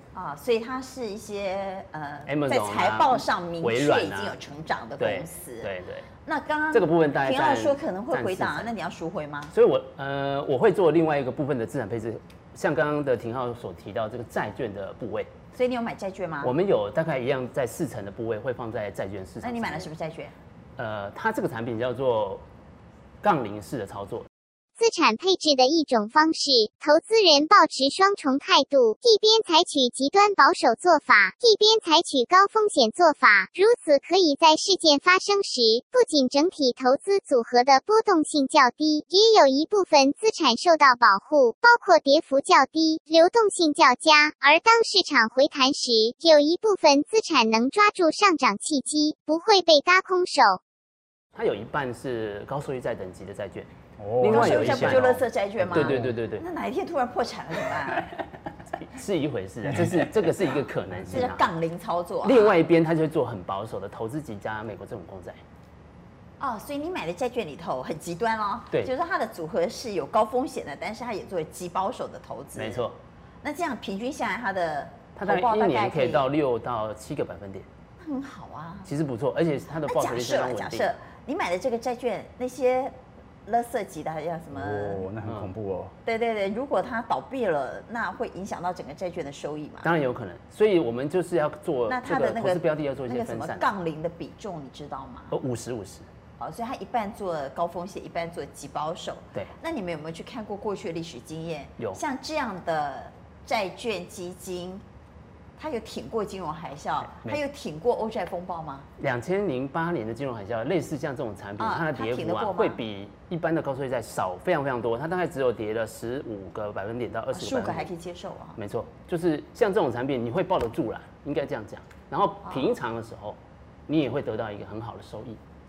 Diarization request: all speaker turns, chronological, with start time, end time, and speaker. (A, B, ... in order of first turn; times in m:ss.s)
0:00.1-0:05.7 A
0:02.3-0:04.4 B
0:05.0-0:06.1 B
0:06.2-0:09.5 A
0:06.7-0:08.7 B
0:09.5-0:15.3 B
0:15.5-0:16.5 A
0:16.4-0:19.9 B
0:19.4-0:20.3 A
0:20.8-0:22.4 B
0:23.2-0:24.3 B
0:24.8-0:50.6 C
0:51.4-0:53.7 B
0:54.0-0:55.2 D
0:54.2-0:56.4 B
0:54.3-0:58.1 A
0:55.7-0:56.1 D
0:58.8-1:01.5 B
0:59.8-1:00.1 D
1:01.1-1:02.6 A
1:02.2-1:05.4 B
1:06.4-1:12.8 A
1:12.6-1:13.0 B
1:13.4-1:16.2 A
1:15.2-1:17.7 B
1:18.0-1:18.9 A
1:18.9-1:20.9 B
1:19.8-1:23.0 A
1:23.5-1:25.1 A
1:24.5-1:26.0 D
1:26.0-1:29.9 A
1:29.8-1:33.7 B
1:31.9-1:35.4 A
1:35.3-1:36.1 B
1:36.4-1:44.8 A
1:45.6-1:48.9 A
1:47.1-1:47.4 B
1:49.0-1:57.9 B
1:51.6-1:52.8 A
1:57.3-1:58.6 A
1:58.6-2:05.4 B
2:02.4-2:02.7 A